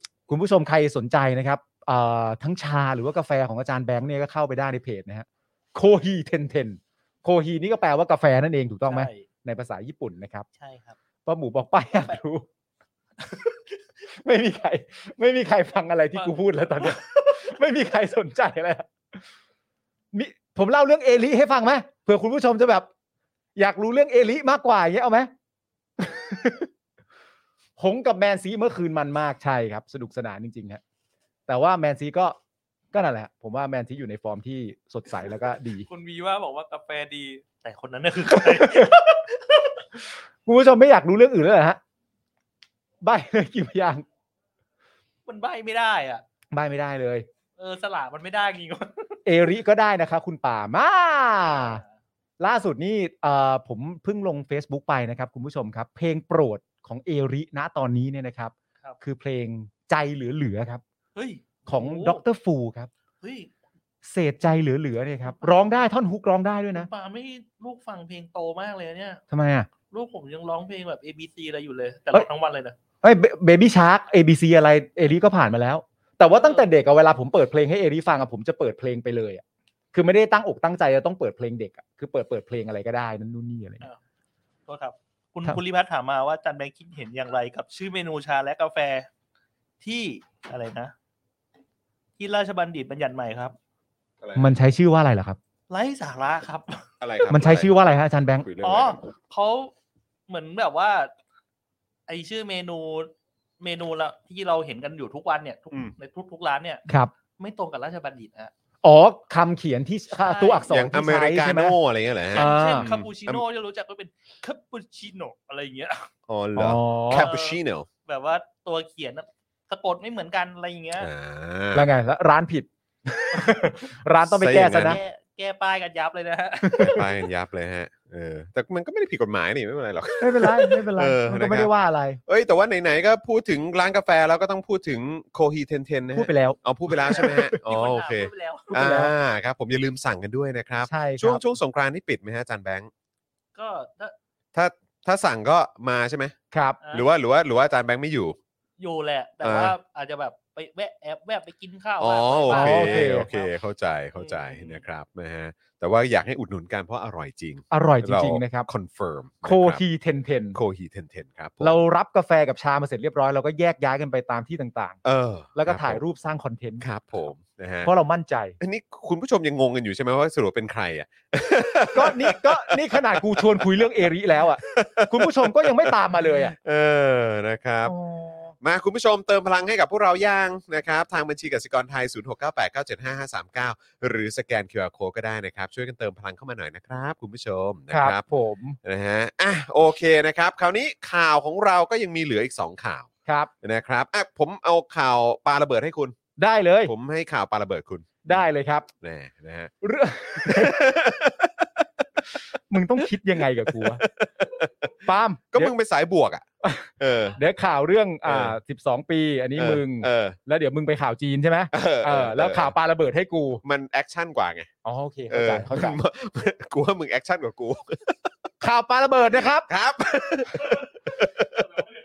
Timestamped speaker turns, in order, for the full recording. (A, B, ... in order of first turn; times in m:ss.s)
0:00.3-0:10.5 A
0:08.9-0:09.2 B
0:10.6-0:11.0 B
0:11.2-0:12.4 A
0:14.1-0:18.9 A
0:16.1-0:17.0 B
0:20.1-0:22.9 A
0:23.6-0:25.3 A
0:26.0-0:26.7 A
0:27.8-0:30.8 A
0:31.5-0:32.4 A
0:32.9-0:35.9 A
0:35.9-0:39.2 B
0:38.4-0:39.0 A
0:40.4-0:41.8 A
0:43.0-0:44.0 A
0:45.2-0:46.2 B
0:46.5-0:47.2 A
0:47.6-0:49.2 B
0:49.2-0:51.8 A
0:51.5-0:51.9 B
0:52.4-1:00.8 A
1:01.1-1:02.2 B
1:01.7-1:02.9 A
1:03.2-1:03.5 B
1:04.0-1:06.9 A
1:06.7-1:09.2 B
1:09.3-1:09.7 A
1:09.9-1:12.8 B
1:13.0-1:19.4 A
1:16.3-1:16.6 B
1:19.9-1:23.8 A
1:24.6-1:29.1 B
1:29.8-1:30.9 B
1:32.2-1:33.6 B
1:34.2-1:34.5 C
1:34.4-1:35.4 A
1:35.7-1:36.8 B
1:37.0-1:37.7 C
1:37.3-1:38.5 A
1:38.4-1:39.0 C
1:38.6-1:39.7 B
1:40.3-1:41.1 B
1:42.1-1:48.5 B
1:48.8-1:51.8 A
1:50.2-1:50.7 B
1:50.7-1:53.4 C
1:52.3-1:56.1 B
1:52.3-1:52.9 A
1:56.3-1:57.9 C
1:56.6-1:57.3 A
1:57.1-2:01.1 B
2:01.0-2:01.9 C
2:01.7-2:05.0 A
2:04.2-2:05.0 C
2:04.8-2:07.1 B
2:06.6-2:07.0 A
2:06.8-2:11.7 C
2:10.2-2:12.2 A
2:12.2-2:22.9 C
2:16.1-2:17.5 A
2:17.6-2:18.8 B
2:18.7-2:19.1 A
2:20.8-2:21.4 A
2:23.5-2:24.1 B
2:24.5-2:26.3 C
2:26.5-2:26.8 A
2:26.8-2:27.0 B
2:26.9-2:28.4 C
2:28.8-2:33.5 B
2:29.4-2:29.8 C
2:32.0-2:39.8 C
2:32.5-2:33.3 A
2:34.1-2:34.8 B
2:37.7-2:38.7 A
2:39.4-2:40.6 A
2:40.5-2:41.7 C
2:41.6-2:45.0 A
2:45.0-2:46.0 C
2:45.5-2:46.8 A
2:46.8-2:47.9 C
2:47.8-2:48.6 A
2:48.6-2:53.8 C
2:51.9-2:56.5 A
2:54.6-2:57.9 C
2:57.8-2:58.5 A
2:58.6-3:08.2 C
3:07.9-3:08.8 A
3:08.8-3:13.1 C
3:13.2-3:13.5 A
3:13.6-3:16.1 C
3:16.4-3:16.9 A
3:16.8-3:18.5 C
3:18.2-3:18.9 A
3:19.0-3:19.7 C
3:19.8-3:20.9 A
3:20.4-3:21.8 C
3:22.7-3:24.0 A
3:23.6-3:24.9 C
3:25.0-3:25.7 A
3:25.5-3:26.4 C
3:26.6-3:33.6 A
3:27.0-3:27.4 C
3:28.2-3:28.6 C
3:29.6-3:30.4 C
3:31.7-3:32.7 C
3:33.6-3:34.7 C
3:34.8-3:36.0 A
3:35.3-3:38.3 C
3:38.6-3:39.7 A
3:39.6-3:41.7 C